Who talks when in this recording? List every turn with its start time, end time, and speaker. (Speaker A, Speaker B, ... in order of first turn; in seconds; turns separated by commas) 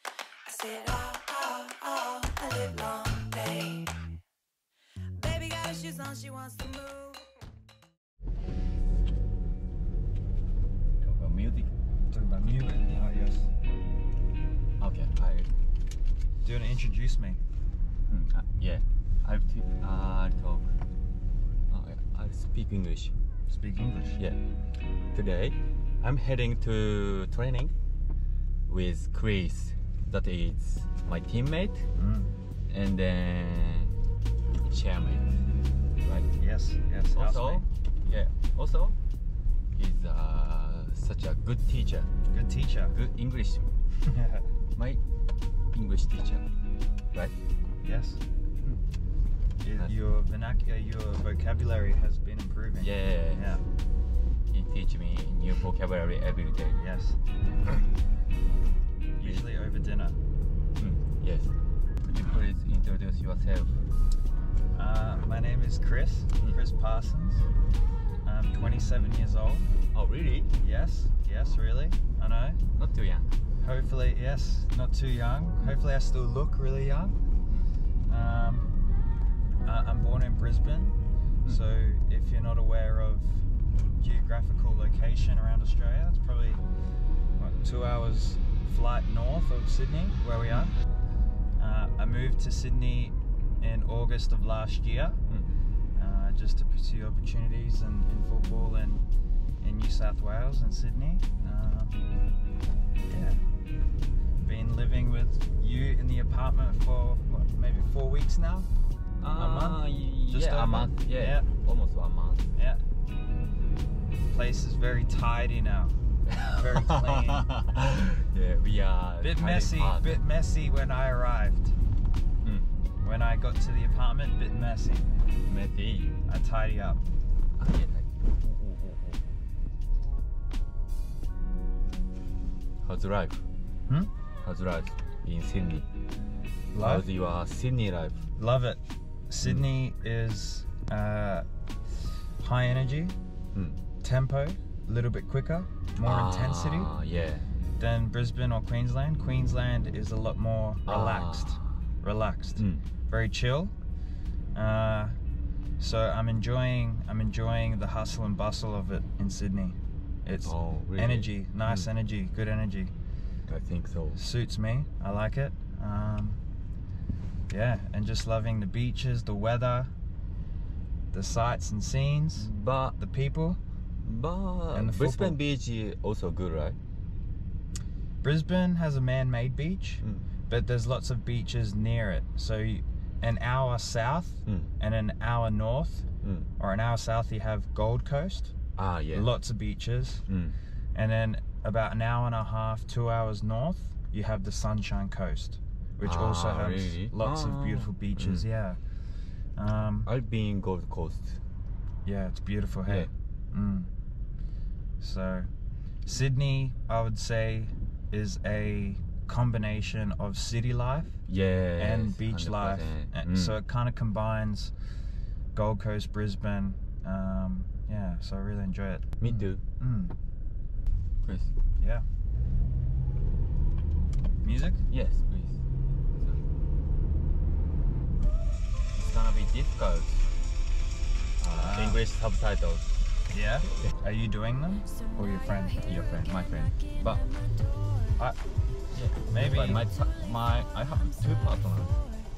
Speaker A: 0.4-4.1, Speaker A: 5.1-7.3, Speaker B: 11.0-11.7, Speaker C: 12.1-13.5, Speaker B: 12.4-13.2, Speaker B: 14.8-15.5, Speaker C: 16.4-17.4, Speaker B: 18.1-20.7, Speaker B: 21.7-23.1, Speaker C: 23.5-24.2, Speaker B: 25.1-27.7, Speaker B: 28.7-31.9, Speaker C: 32.0-32.3, Speaker B: 32.7-33.9, Speaker B: 34.6-35.3, Speaker B: 36.0-36.3, Speaker C: 36.4-37.7, Speaker B: 37.1-39.0, Speaker B: 39.8-42.2, Speaker C: 42.3-42.9, Speaker B: 42.9-43.7, Speaker C: 44.0-44.5, Speaker B: 44.8-45.0, Speaker B: 45.7-46.5, Speaker C: 47.8-48.2, Speaker C: 49.6-53.6, Speaker B: 52.8-53.5, Speaker B: 54.5-56.8, Speaker C: 56.8-57.2, Speaker C: 59.2-60.2, Speaker B: 59.2-59.5, Speaker B: 60.8-63.8, Speaker C: 64.7-67.5, Speaker C: 68.2-69.7, Speaker B: 69.9-70.6, Speaker C: 70.6-72.6, Speaker B: 72.7-73.3, Speaker C: 73.6-77.2, Speaker C: 78.1-78.7, Speaker C: 79.6-86.6, Speaker C: 87.4-90.8, Speaker C: 91.6-95.2, Speaker C: 96.0-99.1, Speaker C: 99.6-102.0, Speaker C: 103.1-103.4, Speaker C: 104.4-108.7, Speaker B: 109.2-112.5, Speaker C: 109.3-111.5, Speaker C: 114.3-117.5, Speaker B: 116.3-120.2, Speaker C: 119.2-121.8, Speaker B: 122.4-122.7, Speaker C: 123.0-125.1, Speaker B: 125.5-126.2, Speaker C: 126.3-127.0, Speaker B: 127.6-129.2, Speaker B: 132.8-133.4, Speaker B: 134.4-135.9, Speaker C: 136.7-137.1, Speaker B: 136.8-138.3, Speaker C: 138.4-138.8, Speaker C: 139.3-141.5, Speaker B: 139.4-139.7, Speaker C: 142.0-143.2, Speaker B: 143.5-143.8, Speaker C: 144.0-146.9, Speaker B: 146.0-147.5, Speaker C: 147.8-153.7, Speaker B: 150.8-151.8, Speaker B: 152.6-152.8, Speaker C: 154.5-155.2, Speaker C: 155.8-162.9, Speaker B: 160.4-161.9, Speaker B: 163.5-164.2, Speaker C: 164.1-166.4, Speaker C: 167.5-169.9, Speaker C: 171.1-173.6, Speaker B: 172.3-173.0, Speaker B: 174.0-176.8, Speaker C: 174.7-175.4, Speaker C: 178.2-186.1, Speaker B: 180.0-180.3, Speaker B: 184.5-184.7, Speaker B: 186.2-186.5, Speaker C: 186.6-188.6, Speaker B: 188.8-189.3, Speaker C: 189.1-190.2, Speaker B: 190.3-190.6, Speaker C: 190.9-198.8, Speaker B: 196.0-198.5, Speaker C: 199.6-200.1, Speaker B: 200.0-201.4, Speaker C: 202.1-203.9, Speaker B: 202.9-203.1, Speaker C: 205.0-205.5, Speaker C: 206.1-211.2, Speaker B: 211.3-213.6, Speaker C: 211.8-214.7, Speaker C: 215.5-220.2, Speaker B: 219.2-219.6, Speaker B: 221.2-221.5, Speaker C: 221.8-222.1, Speaker C: 224.4-224.8, Speaker B: 224.9-225.6, Speaker B: 226.1-226.4, Speaker B: 228.9-230.3, Speaker B: 231.4-232.9, Speaker C: 231.6-232.0, Speaker C: 233.3-235.8, Speaker B: 233.7-233.9, Speaker B: 235.8-237.2, Speaker B: 238.9-241.9, Speaker C: 239.3-239.8